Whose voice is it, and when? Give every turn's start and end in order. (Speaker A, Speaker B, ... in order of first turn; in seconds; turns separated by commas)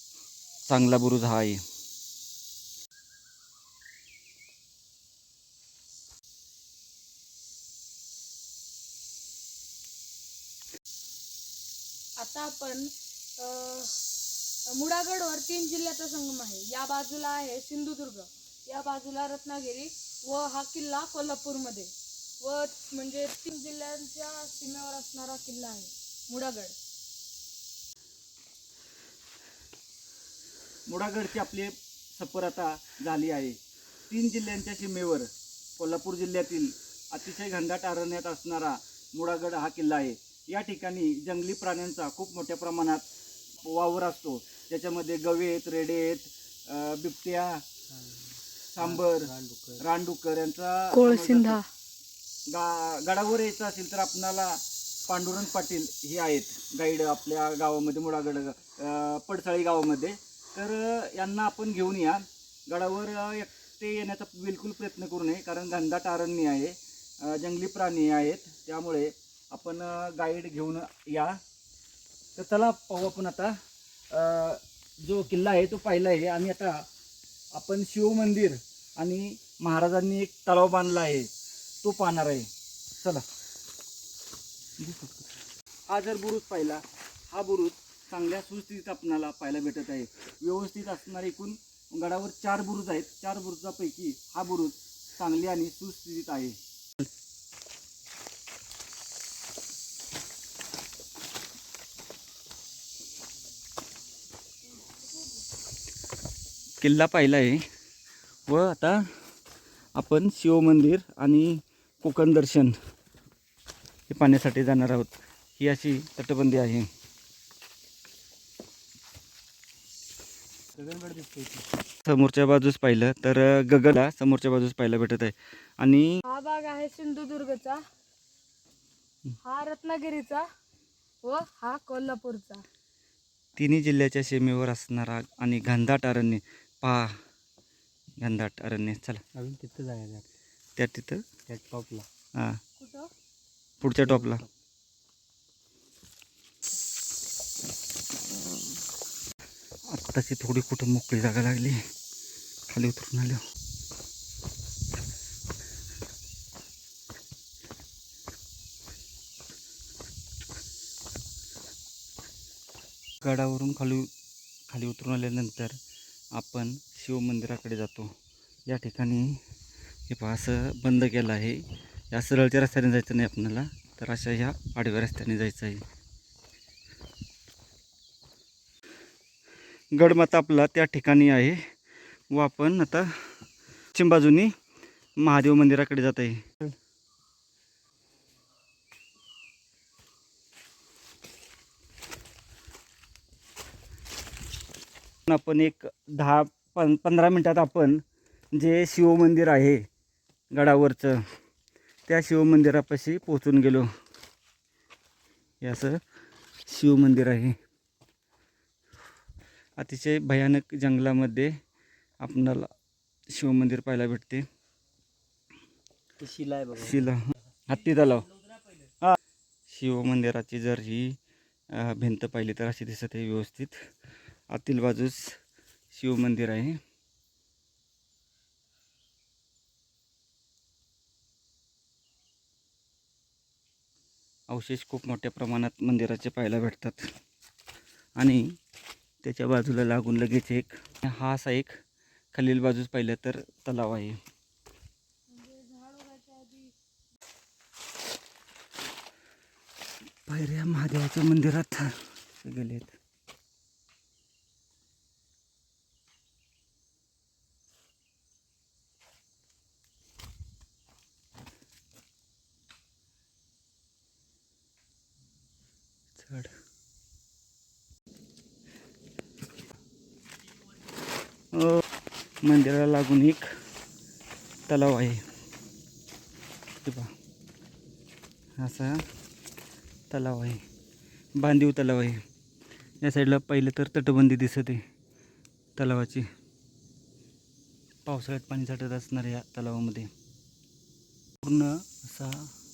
Speaker A: 0.7-1.6, Speaker B: 12.2-14.0, Speaker B: 14.7-26.8, Speaker A: 30.9-33.6, Speaker A: 34.1-43.0, Speaker A: 43.6-47.6, Speaker A: 48.7-51.6, Speaker C: 48.8-49.8, Speaker B: 50.9-51.7, Speaker A: 52.5-71.4, Speaker A: 72.4-73.6, Speaker A: 74.1-76.8, Speaker A: 77.5-81.3, Speaker A: 81.8-83.2, Speaker A: 84.8-85.2, Speaker A: 85.9-96.6, Speaker A: 106.8-107.6, Speaker A: 108.5-109.0, Speaker A: 110.0-112.7, Speaker A: 114.1-116.9, Speaker C: 120.7-121.7, Speaker A: 122.0-126.2, Speaker B: 126.2-127.8, Speaker B: 129.4-130.5, Speaker B: 131.2-132.6, Speaker A: 133.6-137.2, Speaker A: 138.2-139.2, Speaker C: 139.3-140.3, Speaker A: 140.8-141.2, Speaker C: 141.5-142.1, Speaker B: 142.8-143.1, Speaker A: 143.8-144.4, Speaker C: 144.0-144.5, Speaker A: 149.9-151.8, Speaker A: 152.7-153.4, Speaker A: 163.2-164.1, Speaker A: 164.7-165.8, Speaker A: 166.3-168.1, Speaker A: 168.7-169.4, Speaker A: 170.1-175.8, Speaker A: 179.9-181.7, Speaker A: 182.3-183.2, Speaker A: 183.9-184.5, Speaker A: 185.2-186.7, Speaker A: 195.2-199.9, Speaker A: 200.5-201.2, Speaker A: 202.1-203.9, Speaker A: 205.6-206.0, Speaker A: 206.7-207.6, Speaker A: 209.8-211.6, Speaker A: 212.2-212.7, Speaker A: 213.3-214.4, Speaker C: 216.2-217.1, Speaker A: 216.8-218.3, Speaker C: 217.9-218.8, Speaker A: 219.7-221.2, Speaker A: 221.7-223.8, Speaker A: 224.5-225.3, Speaker A: 225.9-226.8, Speaker A: 234.5-237.1, Speaker A: 238.2-238.6, Speaker A: 239.2-241.8, Speaker A: 242.3-244.2, Speaker B: 245.3-246.7, Speaker A: 250.2-252.9, Speaker A: 266.2-266.5, Speaker A: 271.5-271.8, Speaker A: 272.4-273.5, Speaker A: 274.7-275.2, Speaker A: 276.8-277.1, Speaker A: 278.6-279.0, Speaker A: 280.1-280.6, Speaker A: 281.4-282.2, Speaker A: 283.0-284.8, Speaker A: 285.8-286.3, Speaker A: 288.1-290.1, Speaker A: 291.4-292.5